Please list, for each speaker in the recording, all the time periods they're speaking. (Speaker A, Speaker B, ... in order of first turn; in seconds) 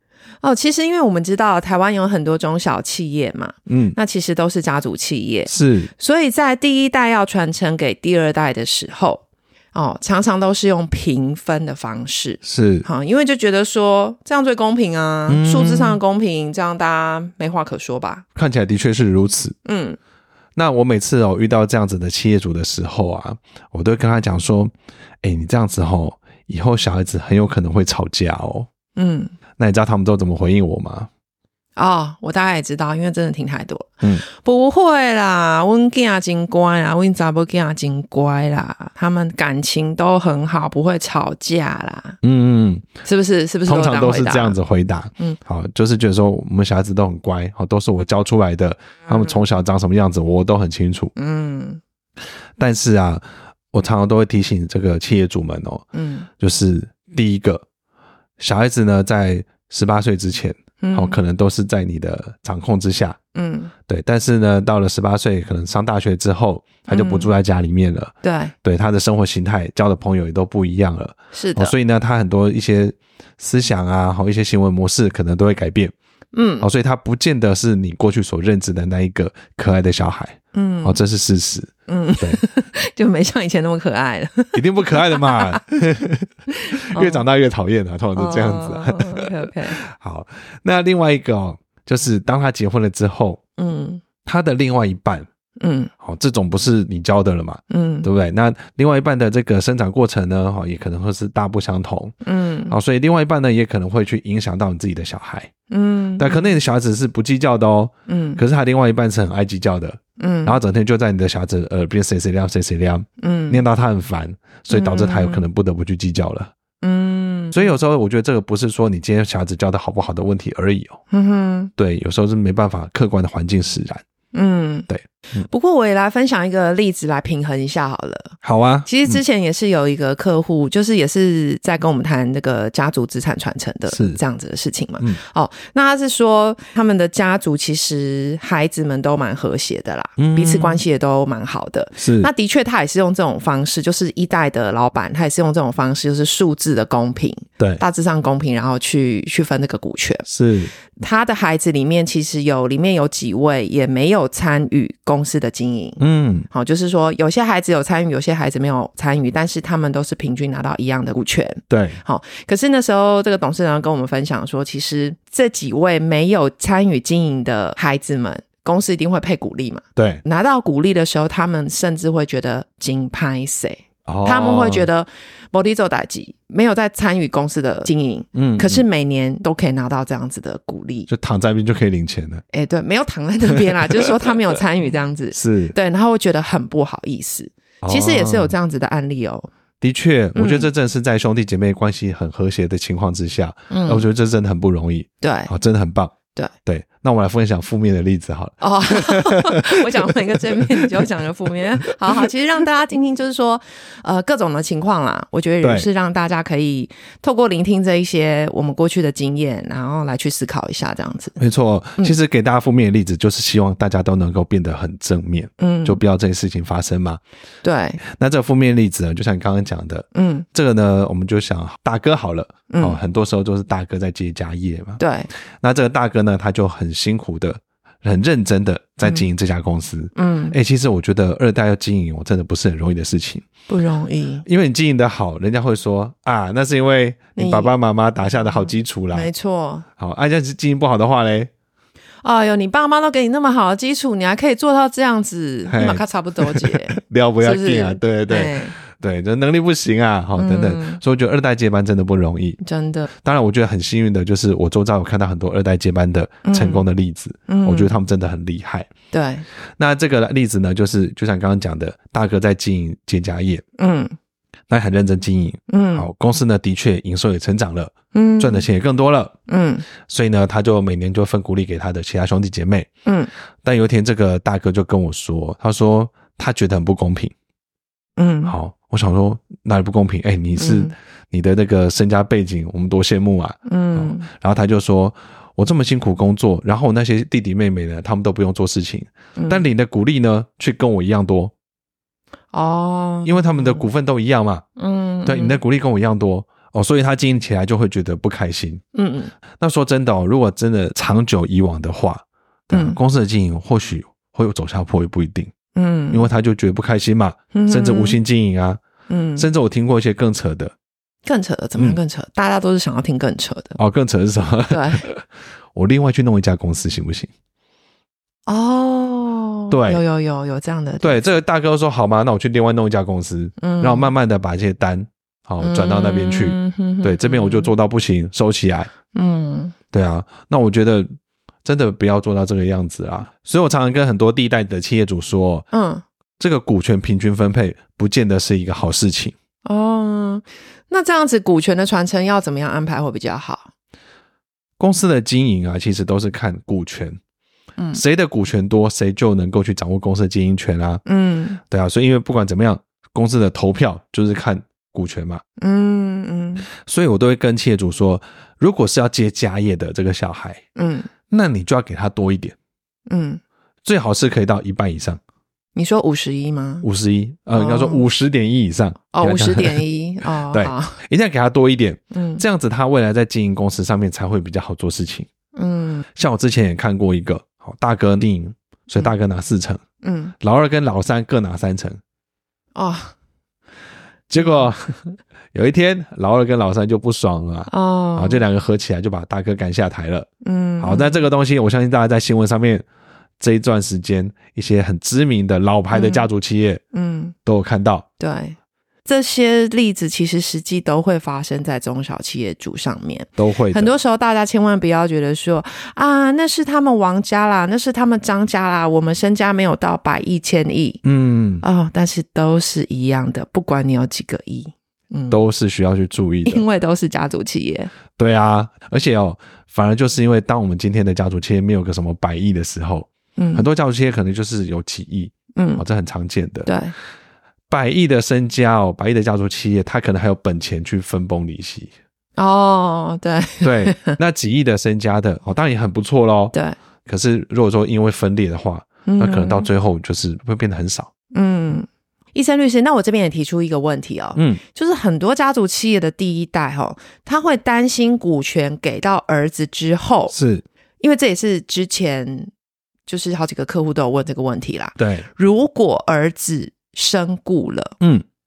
Speaker A: 0.4-18.2, 19.6-20.0, 29.0-29.3, 31.8-42.2, 43.0-44.6, 51.2-51.8, 55.9-56.3, 60.8-61.2, 63.4-63.7, 66.9-67.3, 68.2-68.5, 71.3-71.7, 76.3-76.7, 80.5-81.0, 81.9-85.6, 86.5-87.3, 88.2-89.8, 93.6-94.0, 95.6-95.9, 97.7-98.1, 102.2-102.8, 105.7-106.6, 108.1-108.4, 110.2-110.6, 113.2-113.6, 114.7-115.5, 116.8-117.8, 121.1-121.7, 124.3-150.3, 151.0-156.0, 156.5-181.1, 182.5-189.5, 190.3-190.7, 193.7-194.1, 195.2-195.5, 198.6-211.4, 215.6-216.0, 217.6-218.0, 220.1-220.5, 222.7-223.0, 225.0-225.3, 230.2-230.6, 233.7-234.4, 237.4-237.7, 238.3-239.8, 242.2-248.8, 250.4-251.0, 252.6-253.1, 256.5-256.8, 257.5-257.9, 259.1-259.5, 263.8-264.1, 265.7-266.1, 268.1-268.7, 269.5-269.9, 273.1-273.3, 278.2-278.5, 280.6-280.9, 283.6-284.3, 289.4-289.7, 292.5-293.9, 294.8-295.6, 298.9-299.3, 302.7-303.0, 305.7-306.3, 307.5-308.2, 309.1-309.5, 311.2-313.8, 314.7-315.1, 318.5-321.2, 323.6-324.1, 325.6-327.7, 329.1-329.7, 335.7-336.0, 339.6-343.7, 351.1-351.6, 355.6-356.7, 360.8-361.1, 363.1-363.4, 365.8-366.9, 367.5-368.1, 369.1-371.0, 372.1-372.4, 375.6-376.1, 380.0-380.3, 382.8-383.1, 384.4-384.7, 387.7-388.4, 390.4-391.3, 395.9-396.3, 396.9-397.4, 398.2-411.0, 411.6-415.4, 416.5-417.9, 423.4-423.7, 425.6-425.8, 426.7-426.9, 432.4-434.2, 439.1-439.7, 441.3-450.4, 451.0-452.5, 453.1-457.9
Speaker B: 3.7-4.0, 5.5-5.9, 12.4-12.9, 15.3-16.0, 18.4-19.6, 20.6-28.7, 29.6-31.1, 42.2-42.9, 43.7-51.1, 52.6-55.9, 56.4-57.6, 58.4-63.2, 63.9-68.1, 68.6-75.9, 76.6-82.4, 84.5-86.3, 86.9-89.3, 89.8-93.4, 94.2-95.3, 96.0-102.2, 102.7-105.5, 106.2-116.5, 117.5-121.0, 121.8-124.0, 124.9-125.5, 128.4-129.2, 133.9-134.2, 140.2-140.8, 142.0-142.3, 150.3-150.7, 156.0-156.5, 161.7-162.0, 170.0-170.2, 174.1-174.9, 178.3-178.8, 181.1-182.4, 185.3-185.8, 187.8-188.5, 189.8-199.5, 200.2-201.1, 205.6-205.9, 211.4-217.2, 218.1-225.0, 225.6-233.5, 234.5-239.3, 240.0-241.5, 245.7-252.6, 253.2-258.9, 259.8-263.6, 264.7-269.3, 270.1-272.9, 273.6-277.3, 278.5-291.5, 293.2-294.6, 295.2-298.8, 299.6-305.5, 306.1-308.8, 309.4-310.7, 313.8-317.3, 319.7-320.0, 321.0-328.9, 329.9-331.1, 331.6-335.7, 336.4-339.4, 344.8-347.2, 347.9-351.0, 351.7-355.4, 356.8-360.6, 361.3-362.6, 363.9-365.2, 366.8-369.8, 370.5-375.3, 376.2-379.8, 380.4-382.0, 384.3-390.3, 390.8-392.9, 393.4-396.8, 397.5-398.1, 403.4-403.9, 411.0-411.6, 415.3-416.6, 418.2-426.8, 427.7-431.9, 433.6-436.5, 437.1-441.1, 444.4-444.6, 450.3-450.6, 455.0-455.3